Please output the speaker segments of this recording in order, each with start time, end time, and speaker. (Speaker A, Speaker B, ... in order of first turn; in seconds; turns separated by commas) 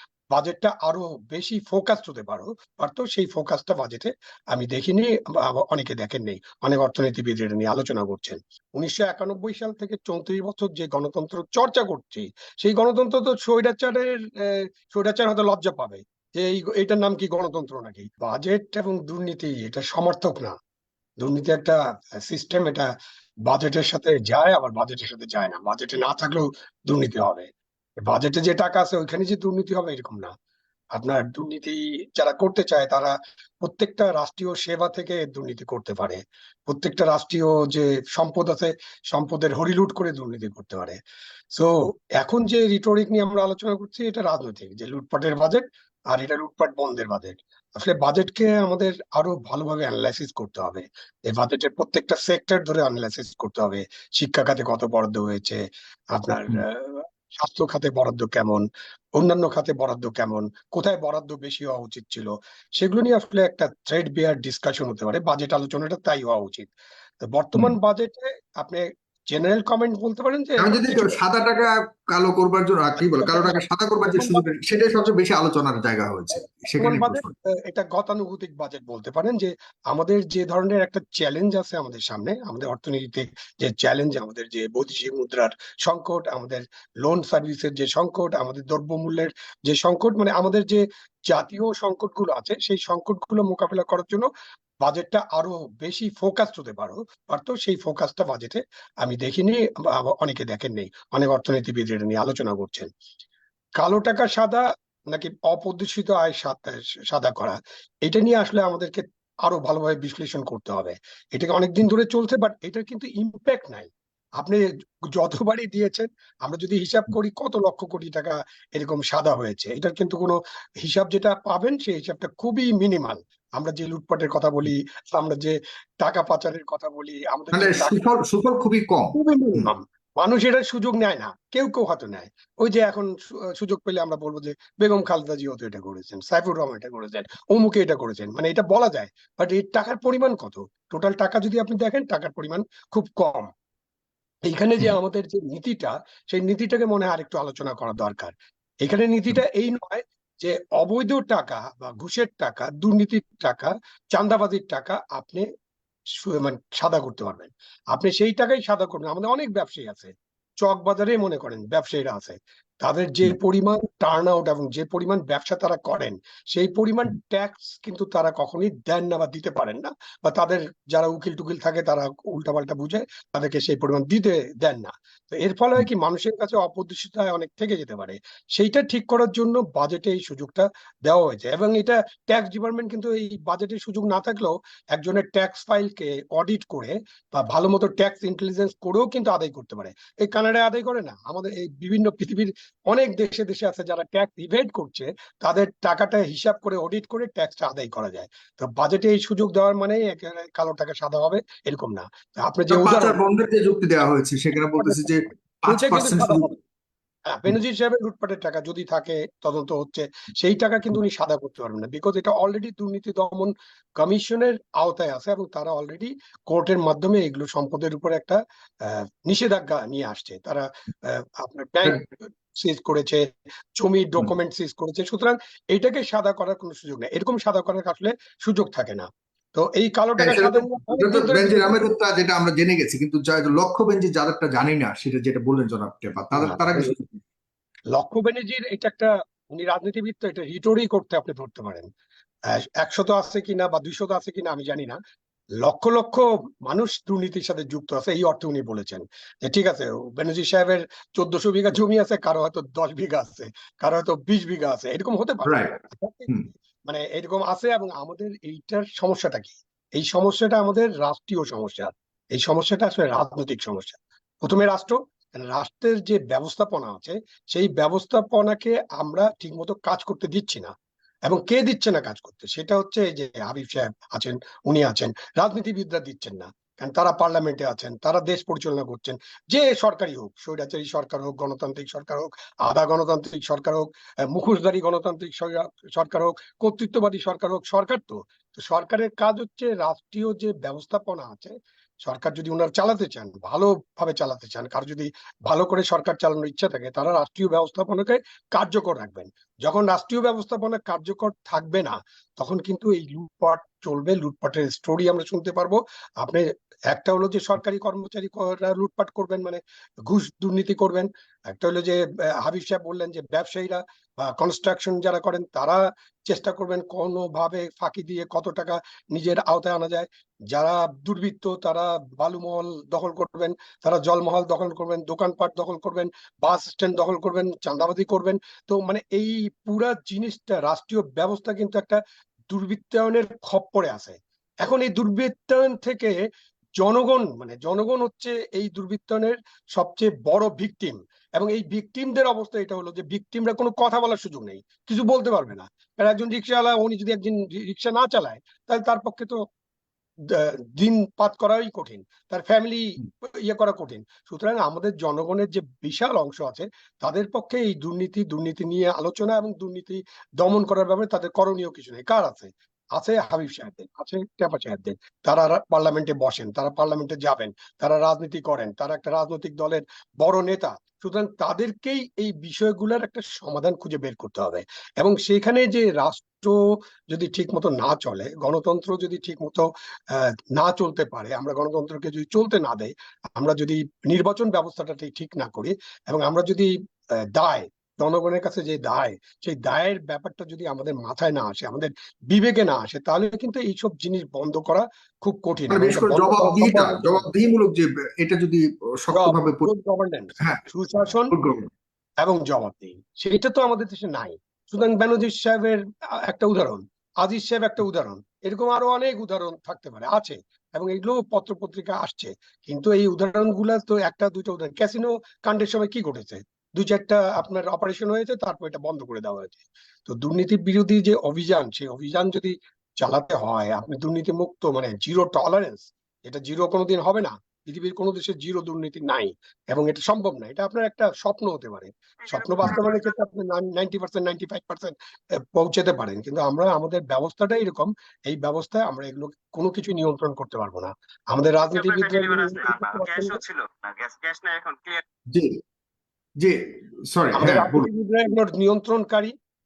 Speaker A: 0.3-20.6, Speaker A: 21.2-22.9, Speaker A: 23.4-27.5, Speaker A: 28.0-30.3, Speaker A: 30.9-41.0, Speaker A: 41.5-55.6, Speaker A: 56.1-58.6, Speaker A: 59.2-66.7, Speaker A: 67.2-71.2, Speaker B: 70.6-77.3, Speaker A: 73.0-74.4, Speaker A: 76.8-94.3, Speaker A: 94.8-102.9, Speaker A: 103.8-128.0, Speaker B: 127.5-129.7, Speaker A: 129.1-143.5, Speaker A: 144.4-155.4, Speaker A: 156.2-203.2, Speaker B: 202.7-206.5, Speaker A: 204.8-205.1, Speaker A: 205.7-206.6, Speaker A: 207.3-231.8, Speaker B: 230.2-237.2, Speaker A: 236.3-236.9, Speaker A: 237.9-241.9, Speaker A: 242.5-245.0, Speaker A: 245.6-256.3, Speaker B: 255.4-255.8, Speaker A: 256.9-270.7, Speaker A: 271.3-336.1, Speaker A: 336.8-349.4, Speaker A: 350.3-376.5, Speaker A: 377.1-397.3, Speaker B: 395.7-399.7, Speaker A: 399.1-401.3, Speaker B: 400.4-400.6, Speaker B: 401.3-401.7, Speaker A: 402.2-434.9, Speaker C: 432.2-433.2, Speaker A: 435.5-443.4, Speaker C: 441.7-445.0, Speaker B: 445.3-445.6, Speaker B: 446.4-447.9, Speaker A: 447.3-449.3